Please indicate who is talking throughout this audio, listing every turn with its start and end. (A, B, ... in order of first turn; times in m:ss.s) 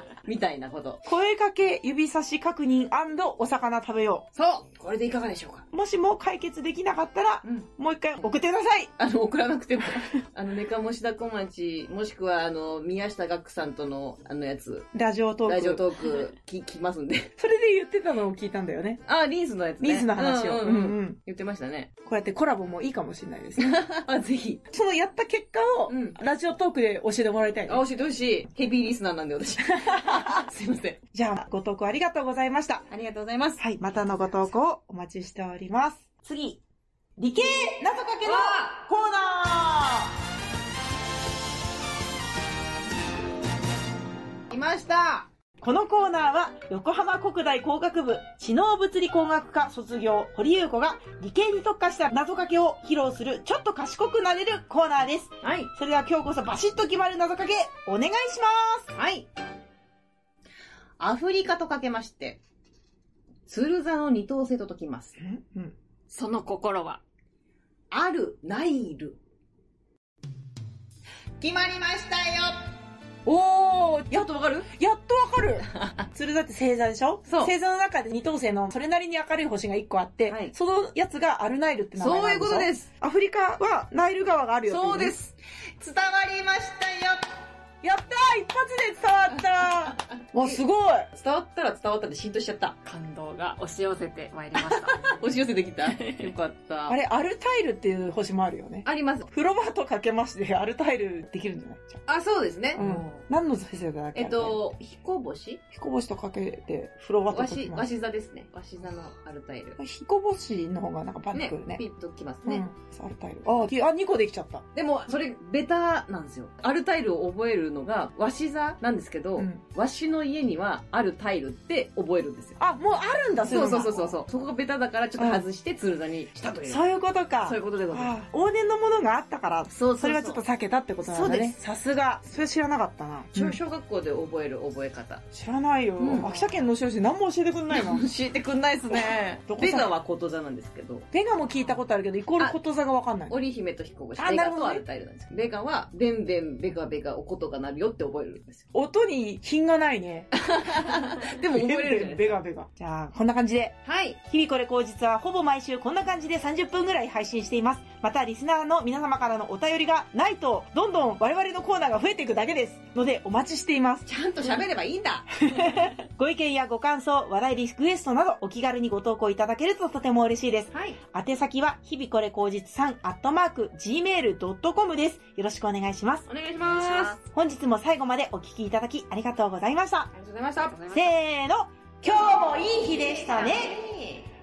0:00.2-0:01.0 A
0:01.0-0:04.2 B
0:04.3-0:05.6 A
0:05.7-0:08.9 B
0:09.0-0:14.9 A
0:14.9-0:15.8 B
0:15.5-0:17.3 A
0:17.4-0:19.0 B
0:19.0-0:21.9 A
0:19.8-0:21.2 B
0:22.0-0:23.8 B
0:23.6-0:24.6 A
0:24.7-0:27.8 B
0:25.9-0:26.2 A
0:27.7-0:31.0 A
0:31.1-0:32.9 B
0:32.9-0:33.6 A
0:33.6-0:36.6 B
0:37.2-0:40.1 B
0:38.2-0:38.8 A
0:44.5-0:45.3 A
0:45.6-0:58.9 B
0:55.4-0:55.7 A
0:58.9-0:59.3 A
1:01.0-1:02.4 A
1:03.5-1:05.2 A
1:05.2-1:05.7 B
1:06.1-1:07.0 C
1:07.9-1:09.2 A
1:11.4-1:12.6 A
1:13.2-1:25.1 B
1:14.1-1:14.7 A
1:15.7-1:16.1 A
1:17.3-1:17.5 A
1:20.3-1:20.5 A
1:22.0-1:22.9 A
1:24.6-1:27.3 A
1:27.8-1:31.1 B
1:29.4-1:30.6 A
1:31.1-1:32.8 A
1:32.8-1:35.2 C
1:34.6-1:37.0 A
1:35.8-1:36.3 C
1:36.9-1:42.0 B
1:38.8-1:39.3 A
1:42.1-1:43.2 A
1:42.7-1:44.6 B
1:44.1-1:45.6 A
1:45.7-1:47.8 B
1:47.3-1:49.8 A
1:49.8-1:51.8 B
1:51.3-1:52.7 A
1:52.4-1:54.6 B
1:54.7-2:02.6 A
1:59.4-1:59.6 B
2:02.6-2:04.2 B
2:03.4-2:06.8 A
2:05.2-2:05.4 B
2:06.6-2:13.6 B
2:07.4-2:08.1 A
2:09.7-2:10.4 A
2:11.0-2:11.6 A
2:13.3-2:15.2 A
2:15.3-2:18.0 B
2:16.0-2:16.5 A
2:17.7-2:21.1 A
2:18.9-2:19.9 B
2:21.1-2:23.3 B
2:23.3-2:28.6 A
2:24.2-2:24.8 B
2:28.7-2:30.3 B
2:30.3-2:32.4 A
2:31.5-2:33.8 B
2:33.8-2:34.2 A
2:34.3-2:44.1 B
2:44.1-2:45.3 A
2:45.4-2:56.2 B
2:50.7-2:51.0 A
2:56.3-2:57.2 A
2:56.6-2:57.2 C
2:57.2-3:00.1 B
3:00.1-3:00.8 A
3:00.5-3:01.2 C
3:00.9-3:03.8 B
3:02.6-3:04.3 A